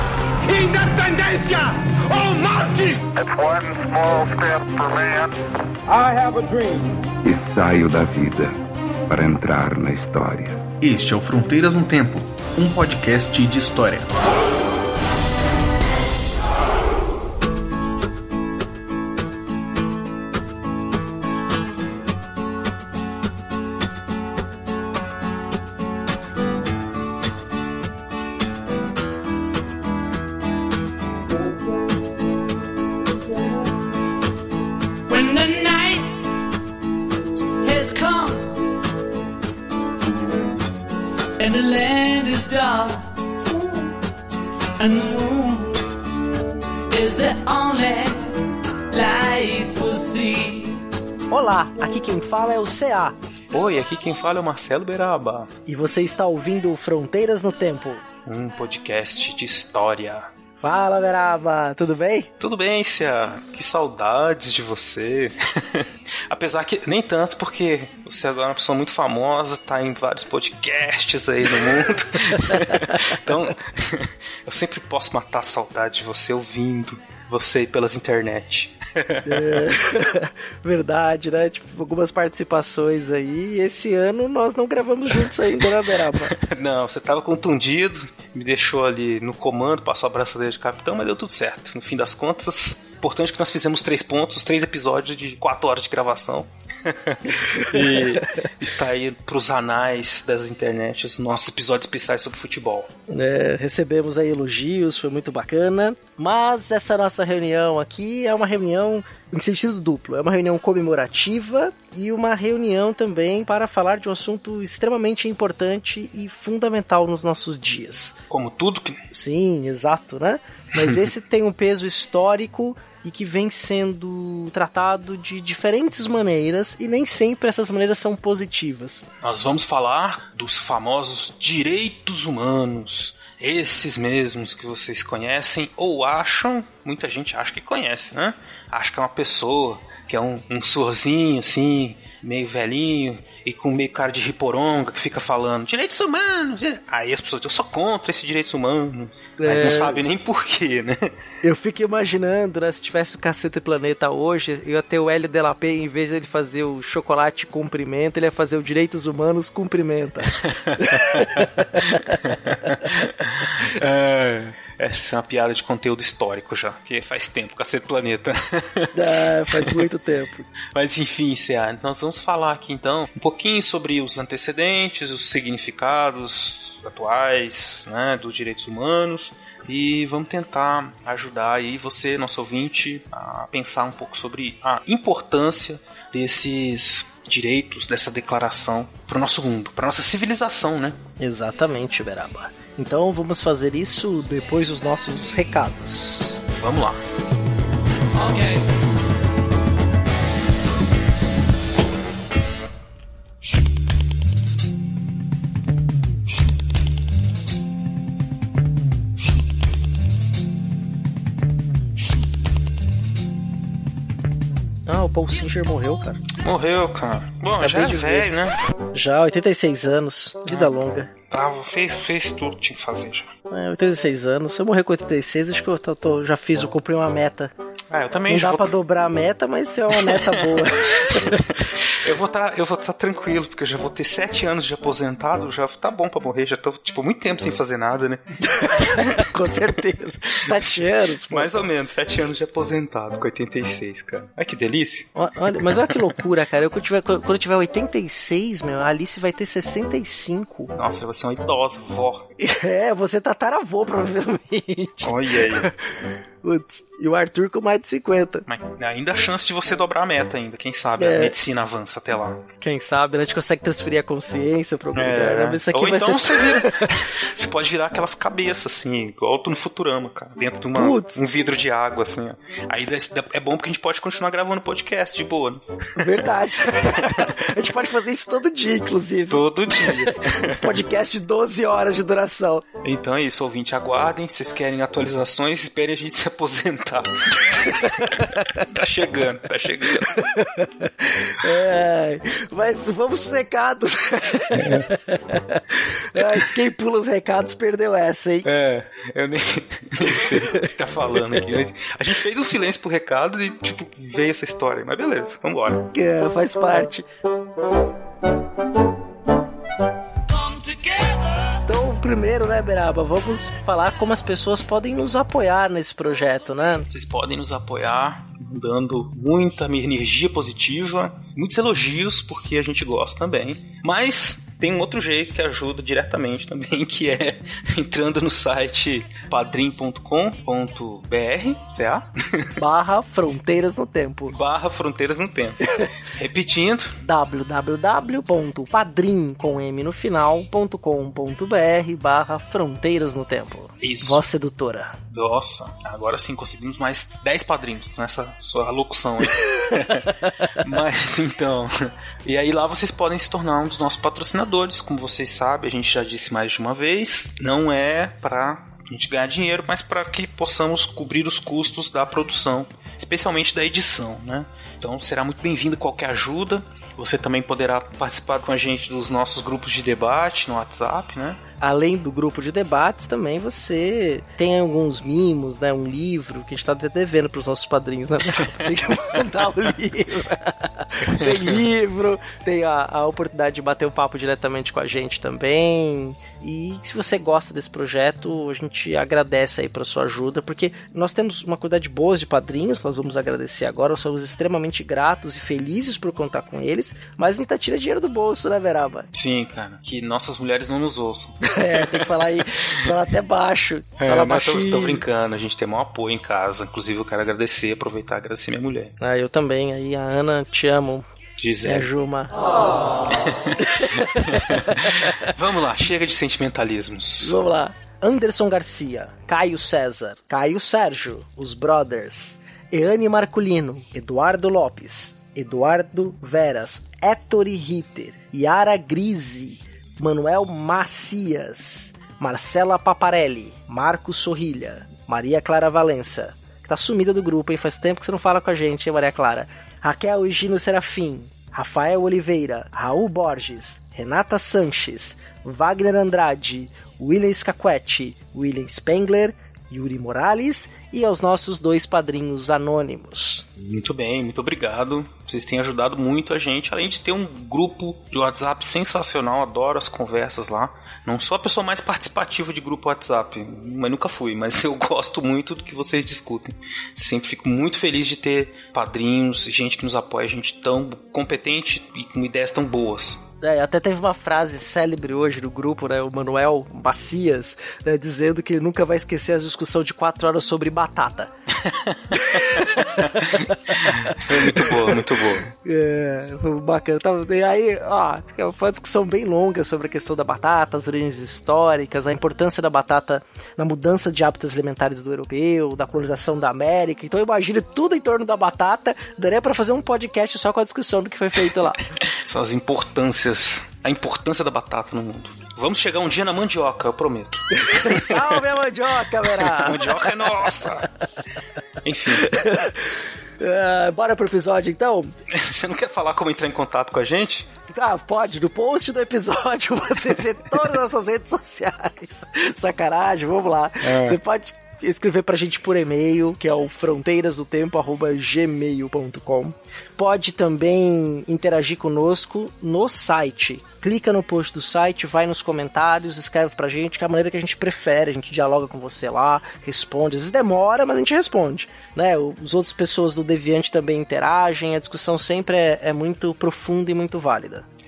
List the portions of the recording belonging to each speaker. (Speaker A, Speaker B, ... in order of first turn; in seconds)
Speaker A: 0.4-3.1, 5.9-6.9
Speaker B: 3.2-5.3
Speaker C: 7.2-8.6, 9.1-10.6
Speaker D: 10.8-14.2
Speaker E: 35.1-36.2, 37.6-38.6, 41.4-43.1, 44.8-45.8, 46.9-48.3, 48.9-50.8, 198.2-198.6, 310.4-311.1
Speaker F: 51.3-53.2, 55.7-58.0, 60.6-62.3, 79.3-86.3, 97.6-98.0, 103.1-118.2, 119.1-129.0, 149.4-150.0, 151.4-162.8, 168.9-170.5, 191.2-196.4, 214.9-216.3, 217.6-218.3, 218.9-221.1, 223.5-227.5, 228.3-231.5, 238.5-241.7, 245.2-250.7, 252.4-255.8, 256.4-258.4, 261.0-261.3, 262.6-266.9, 270.7-271.2, 276.0-282.6, 290.2-298.5, 305.9-307.1, 311.7-316.9, 332.6-334.3, 337.0-345.0, 371.6-399.1, 401.4-405.0, 409.0-411.1, 411.6-412.4, 413.6-415.2, 417.2-453.5, 473.4-481.3, 482.1-501.8, 507.6-510.4, 512.2-515.1, 517.7-547.7
Speaker G: 53.5-55.5, 58.3-60.3, 62.4-79.7, 86.0-102.9, 118.3-119.0, 129.2-151.1, 160.4-161.4, 162.2-169.9, 170.7-191.0, 196.5-197.0, 216.4-218.6, 220.5-220.7, 221.3-223.3, 227.9-228.7, 229.9-239.2, 241.3-246.1, 250.7-252.3, 255.0-255.7, 258.5-262.4, 264.9-277.3, 279.3-280.8, 282.8-290.3, 294.5-294.9, 298.4-305.9, 316.9-332.5, 334.3-337.0, 343.8-344.2, 345.1-371.4, 381.0-381.6, 399.1-402.9, 404.0-408.9, 411.4-411.9, 413.1-417.4, 453.6-473.2, 481.6-485.5, 502.0-508.5, 509.1-510.9, 511.8-512.3, 515.3-517.5, 523.8-524.2